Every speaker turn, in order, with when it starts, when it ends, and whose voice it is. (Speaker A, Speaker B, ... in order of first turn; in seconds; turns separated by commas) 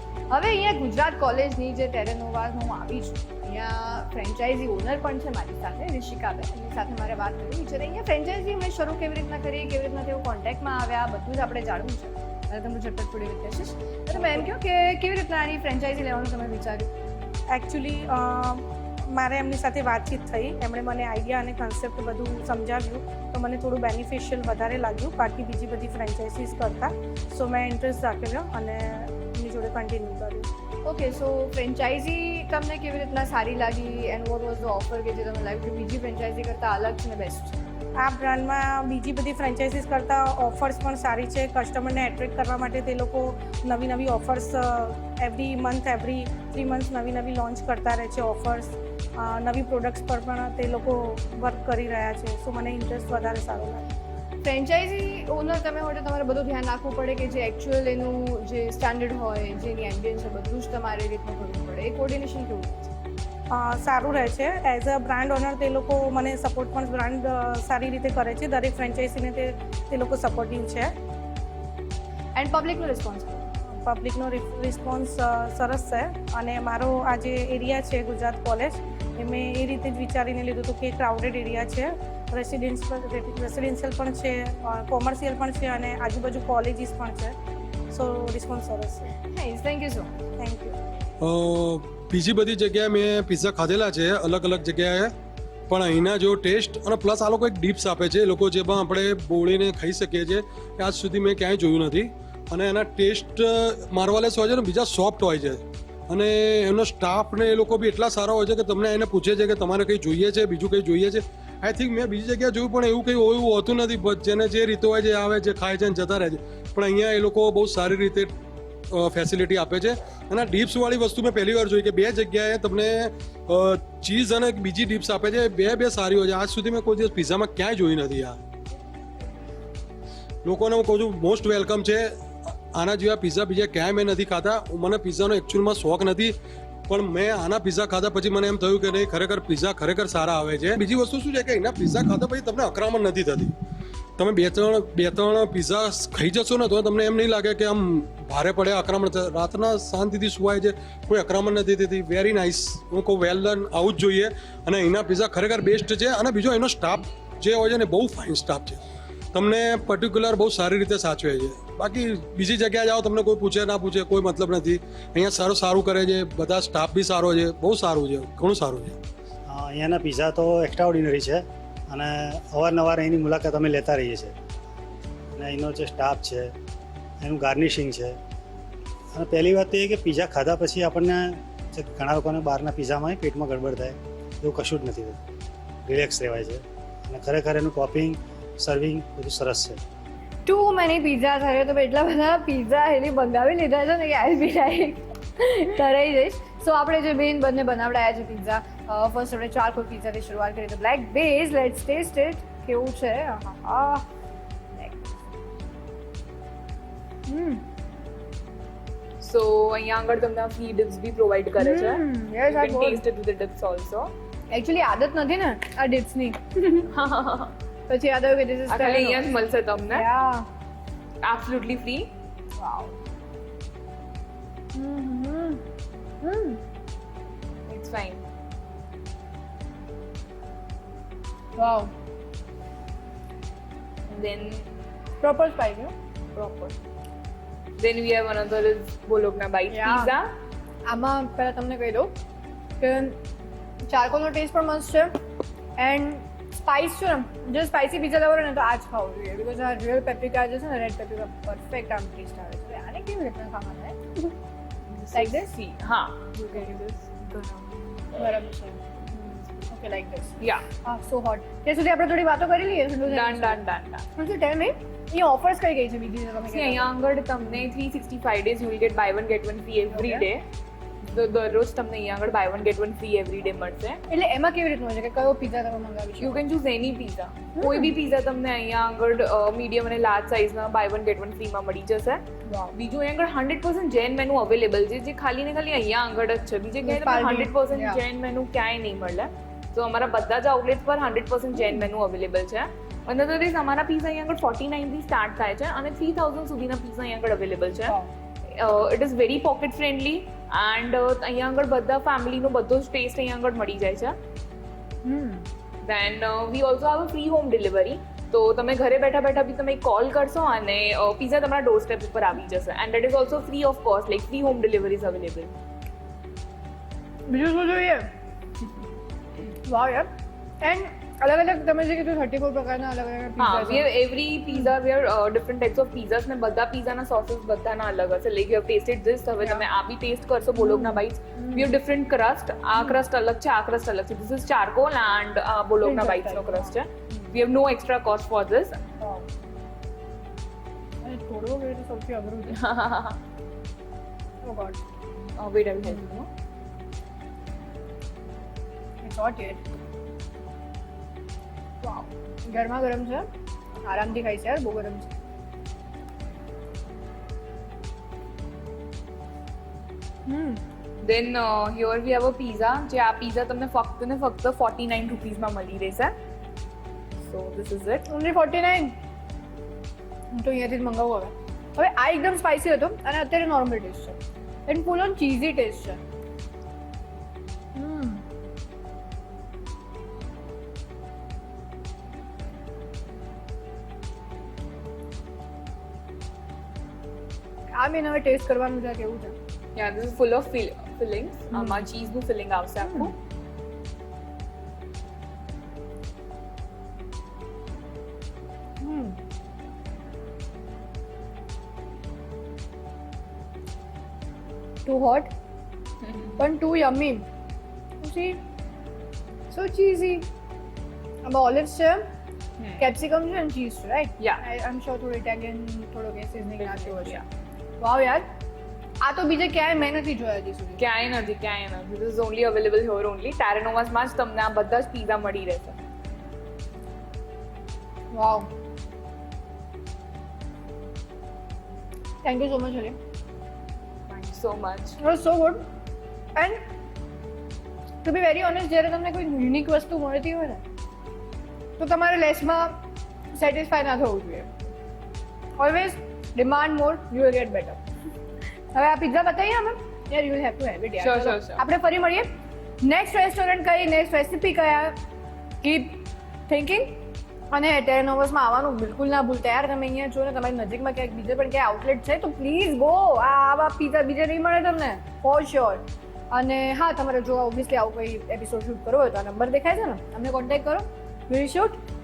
Speaker A: 0.3-16.9, Speaker B: 14.2-14.5, Speaker B: 17.5-30.5, Speaker A: 30.8-37.5, Speaker B: 38.0-53.8, Speaker A: 54.4-62.9, Speaker B: 63.5-70.9, Speaker A: 72.3-73.5, Speaker B: 73.7-87.3, Speaker B: 87.9-89.1, Speaker A: 89.2-90.1, Speaker B: 90.4-90.8, Speaker C: 91.2-95.1, Speaker C: 95.7-118.3, Speaker C: 118.9-128.4, Speaker C: 130.4-132.0, Speaker C: 132.7-136.3, Speaker C: 136.9-143.5, Speaker C: 144.2-158.8, Speaker C: 159.3-169.0, Speaker D: 169.5-174.3, Speaker D: 175.3-176.5, Speaker D: 177.2-178.2, Speaker D: 179.1-185.2, Speaker D: 185.8-189.8, Speaker A: 190.4-204.0, Speaker A: 204.8-205.1, Speaker A: 207.3-207.6, Speaker E: 209.2-214.1, Speaker A: 211.6-213.0, Speaker A: 214.5-216.9, Speaker E: 216.9-217.5, Speaker A: 217.9-219.3, Speaker E: 218.7-220.1, Speaker A: 219.9-220.5, Speaker E: 221.2-222.1, Speaker A: 222.6-222.9, Speaker A: 224.7-225.6, Speaker A: 226.2-226.6, Speaker E: 227.7-228.2, Speaker A: 231.6-231.9, Speaker E: 234.1-234.7, Speaker A: 235.2-235.9, Speaker E: 236.3-236.7, Speaker E: 237.8-240.3, Speaker A: 239.7-240.1, Speaker A: 240.8-242.1, Speaker A: 242.8-243.2, Speaker A: 243.9-245.1, Speaker A: 245.8-254.3, Speaker E: 254.9-257.9, Speaker A: 255.1-255.5, Speaker A: 258.1-263.6, Speaker E: 260.4-260.7, Speaker E: 263.1-264.1, Speaker A: 264.2-266.9, Speaker E: 266.5-270.4, Speaker A: 269.9-270.3, Speaker E: 271.0-274.0, Speaker A: 274.1-276.4, Speaker E: 276.2-282.2, Speaker A: 277.6-277.9, Speaker A: 282.5-282.7, Speaker E: 282.7-297.9, Speaker A: 286.8-288.0, Speaker A: 291.5-291.9, Speaker A: 297.8-298.1, Speaker E: 298.5-304.1, Speaker A: 305.0-305.5, Speaker E: 305.8-315.5, Speaker A: 317.3-318.0, Speaker A: 319.6-320.1, Speaker A: 320.6-323.9, Speaker E: 323.4-338.8, Speaker A: 329.4-329.6, Speaker A: 330.6-331.7, Speaker A: 335.8-337.3, Speaker A: 339.0-339.2, Speaker A: 341.0-342.5, Speaker E: 342.5-343.2, Speaker A: 344.4-344.8, Speaker E: 345.4-346.3, Speaker A: 345.8-346.1, Speaker A: 349.0-349.6, Speaker A: 351.8-353.3, Speaker A: 353.8-355.1, Speaker A: 360.2-360.6, Speaker E: 361.0-366.1, Speaker E: 367.2-368.1, Speaker A: 368.1-368.9, Speaker A: 370.3-376.0, Speaker A: 377.7-378.2, Speaker A: 387.8-389.3, Speaker E: 389.8-393.1, Speaker A: 391.5-391.8, Speaker A: 392.8-393.1, Speaker A: 398.8-399.2, Speaker A: 404.8-405.3, Speaker A: 406.4-407.2, Speaker A: 408.0-408.4, Speaker A: 409.5-410.2, Speaker A: 411.2-412.0, Speaker E: 412.6-412.9, Speaker A: 412.8-417.2, Speaker E: 416.6-417.2, Speaker A: 417.8-418.2, Speaker A: 419.0-420.8, Speaker E: 420.8-425.8, Speaker A: 428.1-428.5, Speaker A: 432.2-432.9, Speaker E: 434.1-435.0, Speaker A: 435.0-435.6, Speaker A: 438.0-440.6, Speaker A: 441.8-442.8, Speaker A: 443.3-444.5, Speaker A: 445.6-447.8, Speaker A: 448.7-452.3, Speaker E: 451.0-451.6, Speaker A: 452.8-454.9, Speaker A: 455.6-456.9, Speaker A: 457.5-471.8